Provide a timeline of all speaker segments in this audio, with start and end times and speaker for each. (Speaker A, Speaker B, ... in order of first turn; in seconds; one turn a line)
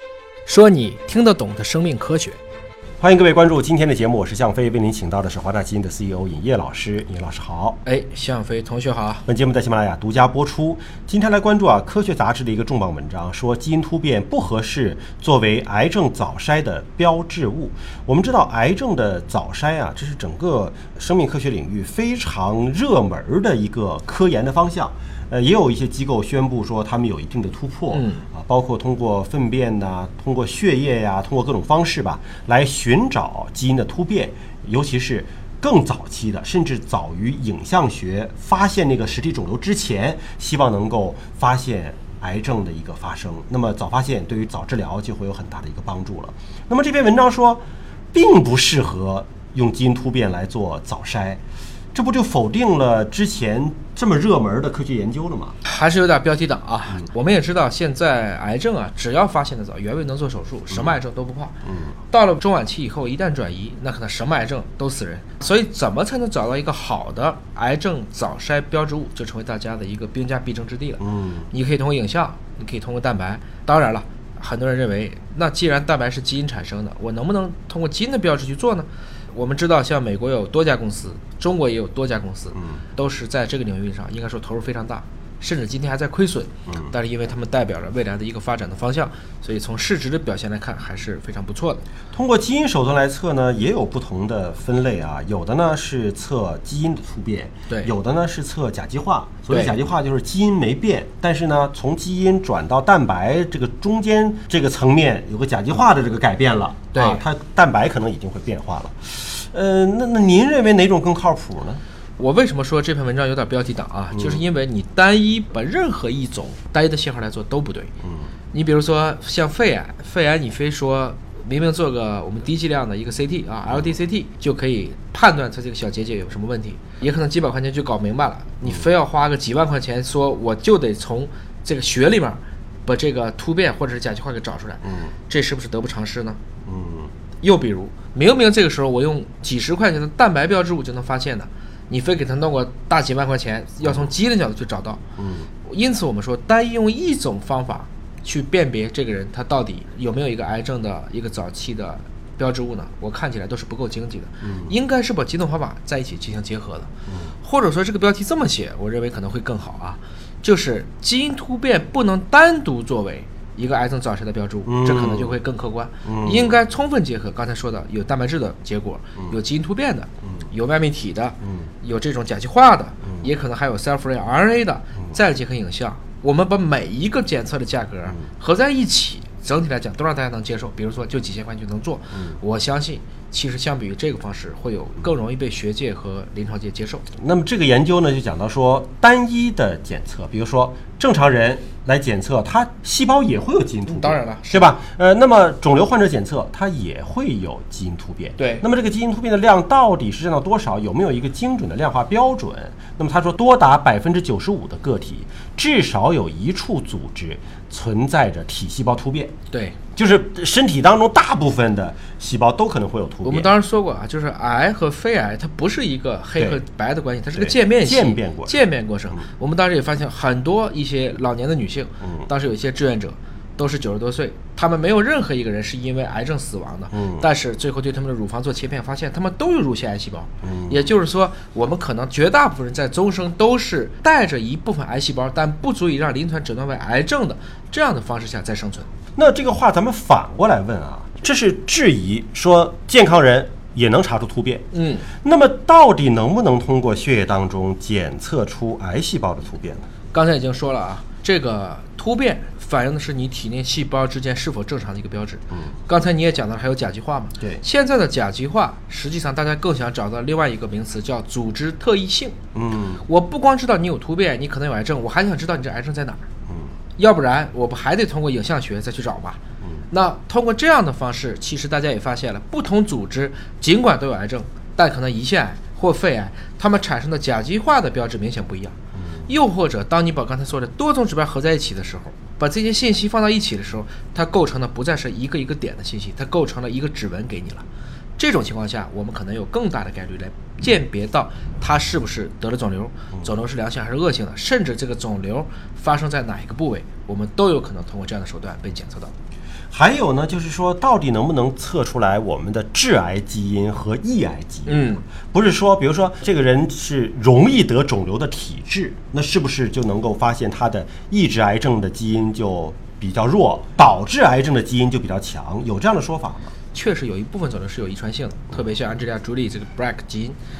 Speaker A: 0.5-2.4
Speaker B: 3.0-7.8
Speaker A: 7.8-9.2
Speaker B: 9.2-51.4
Speaker A: 27.9-28.2
Speaker B: 51.9-55.5
Speaker A: 55.6-61.5
Speaker B: 60.7-61.0
Speaker B: 61.6-62.0
Speaker A: 62.1-91.8
Speaker B: 71.0-71.5
Speaker B: 82.5-82.8
Speaker B: 92.1-111.8
Speaker A: 99.5-99.7
Speaker A: 106.9-107.2
Speaker A: 112.2-117.9
Speaker B: 114.1-114.4
Speaker B: 118.0-118.3
Speaker A: 118.5-136.4
Speaker B: 123.7-123.9
Speaker B: 134.8-135.1
Speaker B: 136.6-137.1
Speaker A: 137.4-145.0
Speaker B: 143.8-144.1
Speaker B: 145.2-145.5
Speaker A: 145.6-156.9
Speaker B: 154.4-154.7
Speaker B: 157.1-157.3
Speaker A: 157.4-187.1
Speaker B: 164.6-165.4
Speaker B: 166.0-166.6
Speaker B: 171.4-171.7
Speaker B: 187.1-209.3
Speaker A: 193.8-194.7
Speaker A: 198.4-198.6
Speaker A: 209.5-209.8
Speaker B: 209.9-213.5
Speaker A: 213.2-238.9
Speaker B: 217.3-219.2
Speaker B: 222.0-222.3
Speaker B: 226.9-227.3
Speaker B: 230.4-230.9
Speaker B: 239.1-244.6
Speaker A: 244.7-245.1
Speaker B: 245.2-249.9
Speaker A: 250.1-262.4
Speaker B: 262.5-263.0
Speaker A: 263.0-266.2
Speaker B: 266.5-266.7
Speaker A: 267.0-269.4
Speaker B: 269.6-269.9
Speaker A: 269.9-278.8
Speaker B: 278.9-279.3
Speaker A: 279.3-287.6
Speaker A: 288.2-299.1
Speaker B: 299.7-316.5
Speaker A: 304.6-305.0
Speaker A: 316.7-320.4